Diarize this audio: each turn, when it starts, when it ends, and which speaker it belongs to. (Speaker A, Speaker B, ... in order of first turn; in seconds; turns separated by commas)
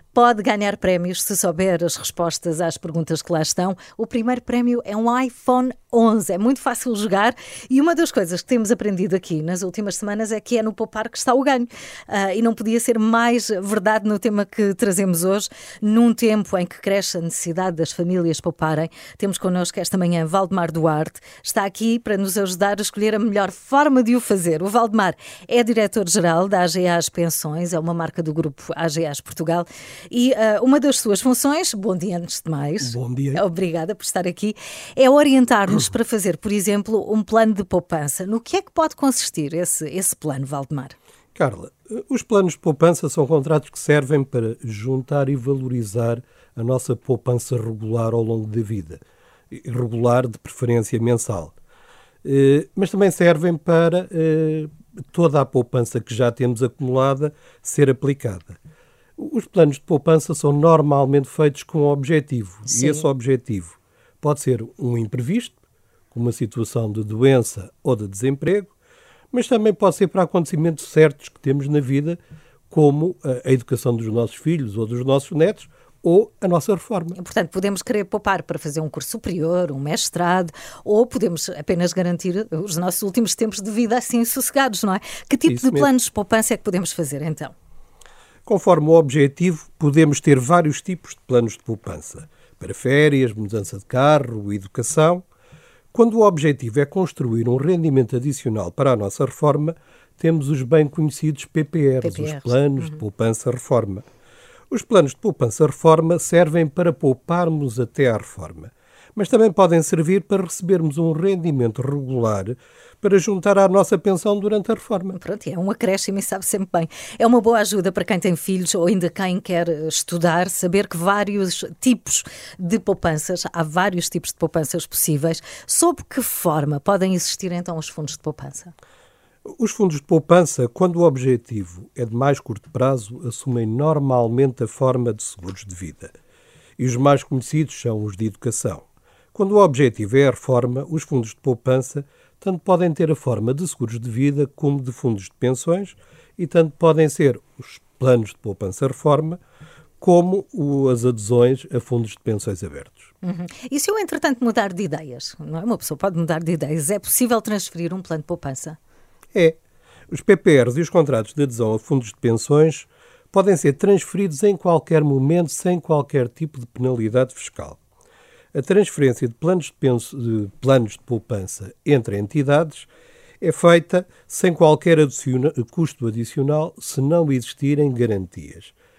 Speaker A: 0.1-41.0, Speaker B: 32.8-33.4, Speaker B: 41.4-51.5, Speaker B: 52.2-58.6, Speaker B: 59.2-65.6, Speaker A: 62.7-63.0, Speaker B: 66.1-68.7, Speaker B: 69.3-72.2, Speaker B: 72.7-77.2, Speaker A: 77.2-87.5, Speaker B: 85.5-85.9, Speaker B: 88.5-95.2, Speaker B: 95.9-104.0, Speaker A: 102.0-103.0, Speaker B: 104.7-115.2, Speaker A: 115.1-128.7, Speaker B: 129.4-136.1, Speaker B: 136.8-149.4, Speaker B: 150.0-153.1, Speaker A: 153.2-158.8, Speaker B: 160.1-167.8, Speaker B: 168.5-172.9, Speaker B: 173.4-178.7